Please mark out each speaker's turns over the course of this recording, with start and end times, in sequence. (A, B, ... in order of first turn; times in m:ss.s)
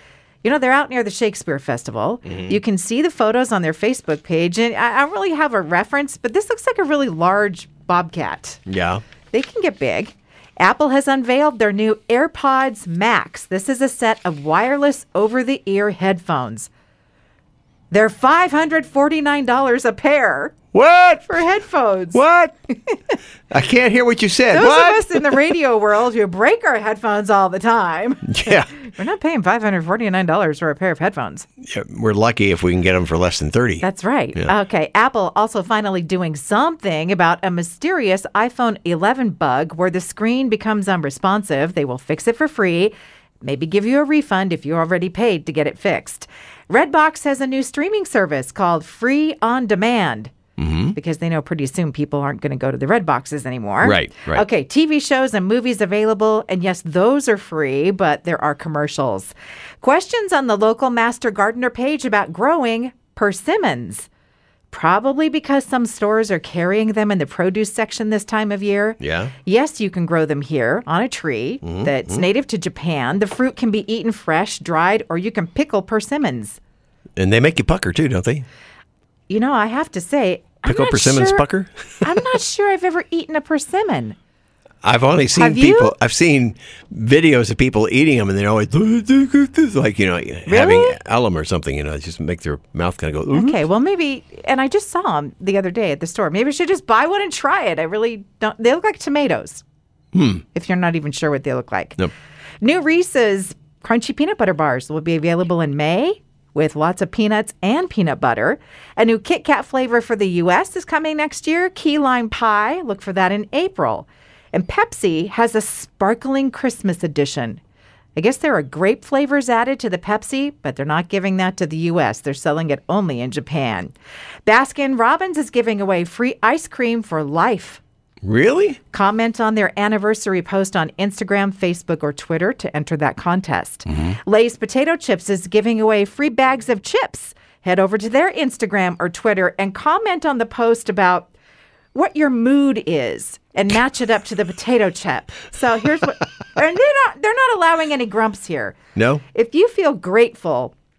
0:00.4-0:08.6 A
0:02.3-0:02.6 B
0:08.7-0:09.0 B
0:09.3-0:16.7 A
0:17.9-0:20.6 A
0:20.7-0:21.4 B
0:21.3-0:22.2 A
0:22.1-0:22.6 B
0:23.5-0:25.2 B
0:24.5-0:31.5 A
0:28.2-0:28.7 B
0:31.6-0:34.5 B
0:33.8-0:50.3 A
0:50.6-0:51.0 B
0:51.0-1:04.1 A
0:53.8-0:54.4 B
1:04.7-1:16.6 A
1:09.0-1:09.3 B
1:11.6-1:12.2 B
1:17.2-1:18.5 B
1:19.3-1:21.5 A
1:20.6-1:21.7 B
1:22.0-1:24.2 A
1:24.8-1:33.6 B
1:25.4-1:25.9 A
1:30.5-1:31.0 A
1:33.3-1:39.6 A
1:40.1-1:40.4 B
1:40.6-1:42.0 A
1:42.6-1:57.6 A
1:58.2-2:04.0 A
2:04.5-2:07.8 A
2:08.2-2:08.8 B
2:08.9-2:21.3 A
2:22.0-2:28.8 A
2:29.0-2:29.2 B
2:29.3-2:30.7 A